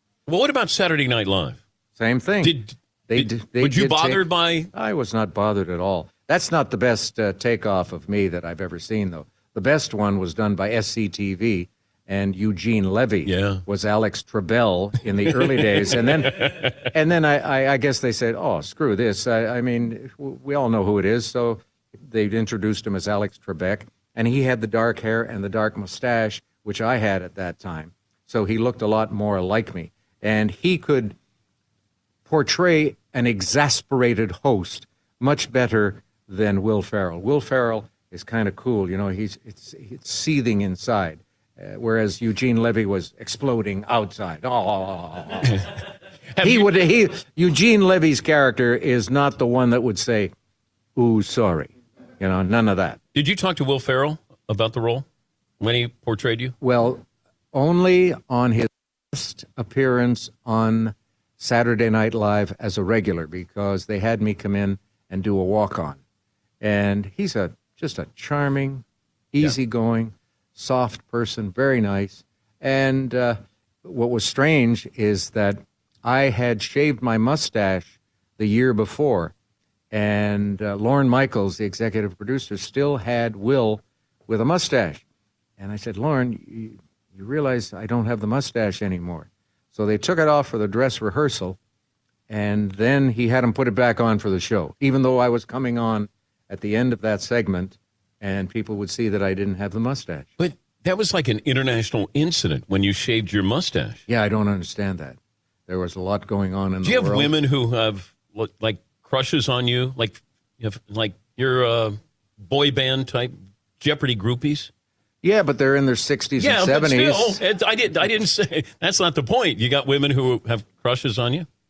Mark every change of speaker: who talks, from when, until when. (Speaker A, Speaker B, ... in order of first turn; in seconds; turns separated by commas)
Speaker A: 0.3-1.6, Speaker B: 2.0-2.5, Speaker A: 2.4-4.7, Speaker B: 3.1-31.1, Speaker A: 13.2-13.6, Speaker A: 15.3-16.9, Speaker B: 32.2-45.6, Speaker A: 46.4-46.7, Speaker B: 46.4-50.3, Speaker B: 51.0-53.0, Speaker A: 53.1-55.0, Speaker A: 55.6-56.5, Speaker B: 56.6-66.0, Speaker B: 66.6-79.3, Speaker B: 79.9-85.0, Speaker B: 85.6-91.6, Speaker B: 92.3-100.3, Speaker A: 100.4-104.0, Speaker B: 104.1-107.3, Speaker A: 106.8-114.7, Speaker B: 115.2-117.4, Speaker A: 116.4-121.5